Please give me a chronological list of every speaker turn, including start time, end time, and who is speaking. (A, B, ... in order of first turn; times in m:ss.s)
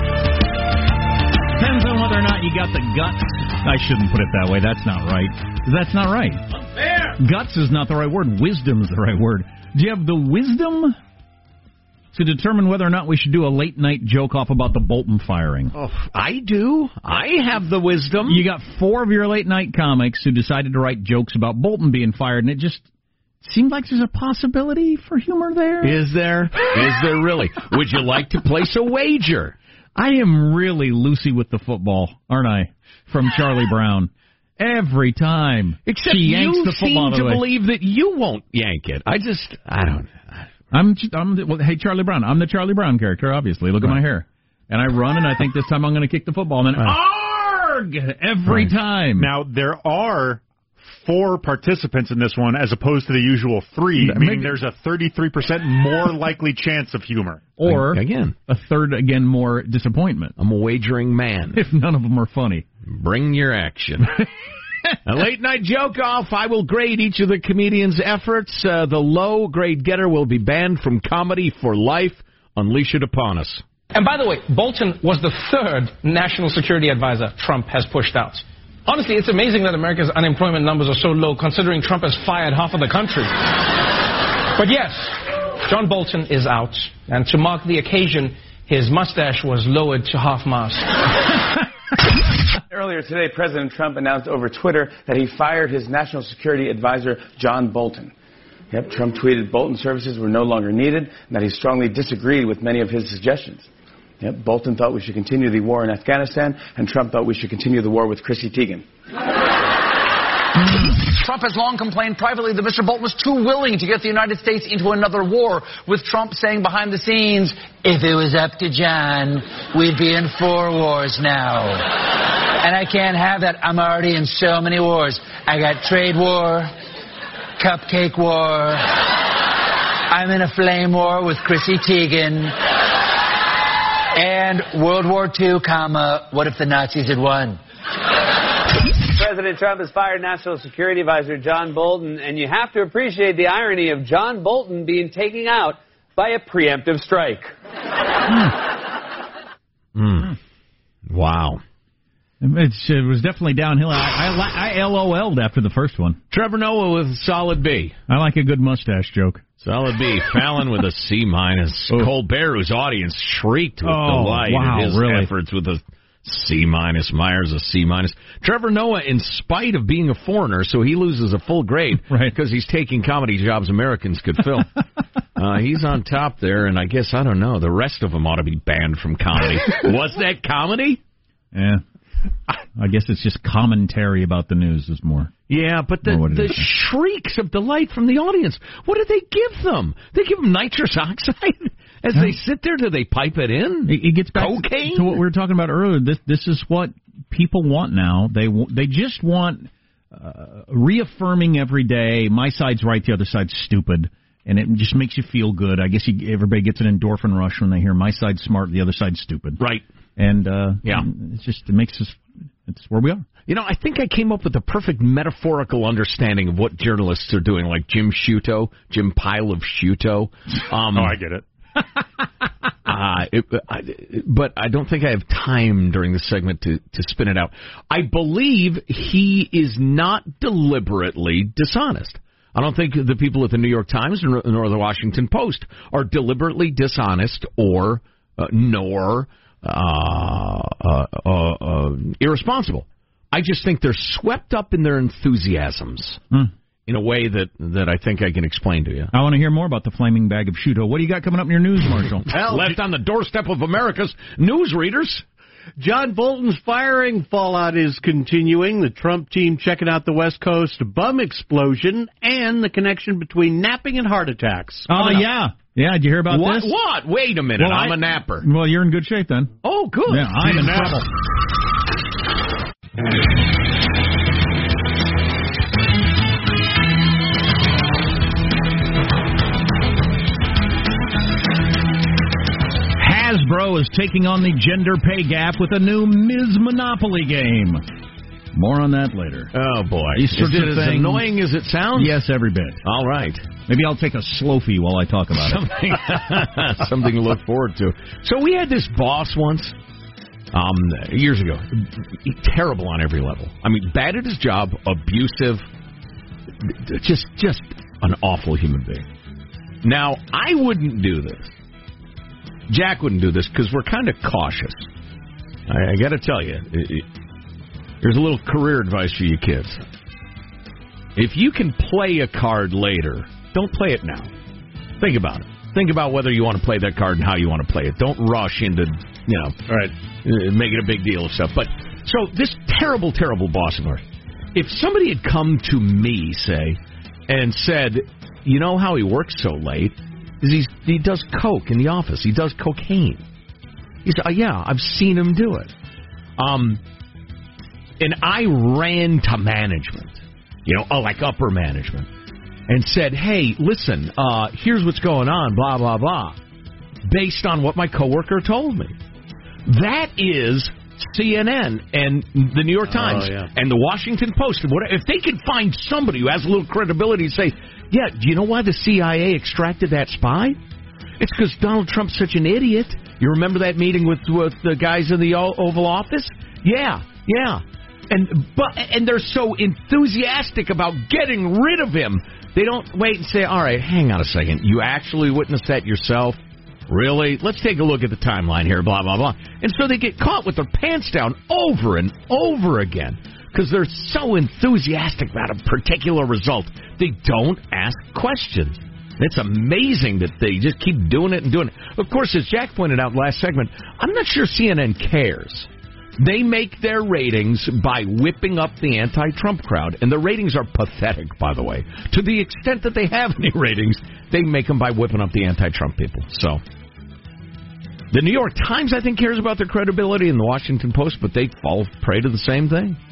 0:01.6-0:06.4 A
0:06.7-0:07.1 B
0:07.2-0:11.0 A
0:12.1-0:15.7 A
0:15.7-0:18.4 B
0:18.3-0:22.8 A
0:23.4-0:26.0 A
0:25.8-0:29.6 B
0:30.0-0:37.4 A
0:35.8-0:40.5 B
0:40.7-0:49.3 A
0:48.5-0:57.5 C
0:54.0-0:54.5 A
0:57.6-1:00.3 A
0:57.6-0:58.4 B
1:00.4-1:01.6 B
1:01.5-1:02.7 A
1:02.8-1:04.2 B
1:05.0-1:13.6 B
1:13.9-1:23.8 D
1:24.5-1:31.3 D
1:32.7-1:38.1 E
1:38.7-1:43.7 E
1:44.2-1:48.8 E
1:50.6-2:06.7 F
2:07.6-2:09.1 F
2:10.1-2:12.7 F
2:14.1-2:17.6 F
2:19.0-2:27.5 G
2:29.9-2:30.4 B
2:31.1-2:31.6 B
2:32.4-2:36.2 A
2:36.3-2:38.0 B
2:38.1-2:39.4 A
2:39.6-2:54.7 B
2:43.8-2:45.3 A
2:52.1-2:52.3 A
2:55.4-3:01.0 B
3:01.5-3:01.8 A
3:02.7-3:05.3 A
3:05.5-3:15.2 B
3:06.0-3:06.6 A
3:13.9-3:29.6 A
3:29.6-3:29.8 B
3:30.2-3:33.2 A
3:33.5-3:41.2 B
3:40.9-3:41.4 C
3:42.8-4:06.2 B
4:06.9-4:09.1 B
4:09.1-4:12.3 A
4:12.3-4:15.2 B
4:12.3-4:12.8 H
4:15.8-4:25.1 H
4:24.9-4:26.7 A
4:26.3-4:28.5 B
4:27.6-4:29.5 A
4:29.6-4:31.0 B
4:30.1-4:31.1 A
4:43.0-4:47.8 A
4:48.5-4:49.5 A
4:49.5-4:52.2 B
4:50.1-4:51.3 A
4:51.9-4:52.8 A
4:52.8-4:53.5 B
4:53.7-4:55.7 A
4:55.3-4:59.7 B
5:00.5-5:05.6 B
5:06.6-5:09.0 B
5:09.8-5:11.5 B
5:12.7-5:14.9 B
5:15.7-5:17.0 B
5:18.0-5:19.8 B
5:21.2-5:24.3 B
5:25.0-5:43.2 B
5:44.0-5:45.7 B
5:46.4-5:46.8 B
5:48.0-5:52.1 B
5:52.7-5:56.4 B
5:57.0-5:58.9 B
5:59.6-6:10.6 B
6:03.0-6:03.5 H
6:11.2-6:56.6 B
6:58.1-7:03.0 B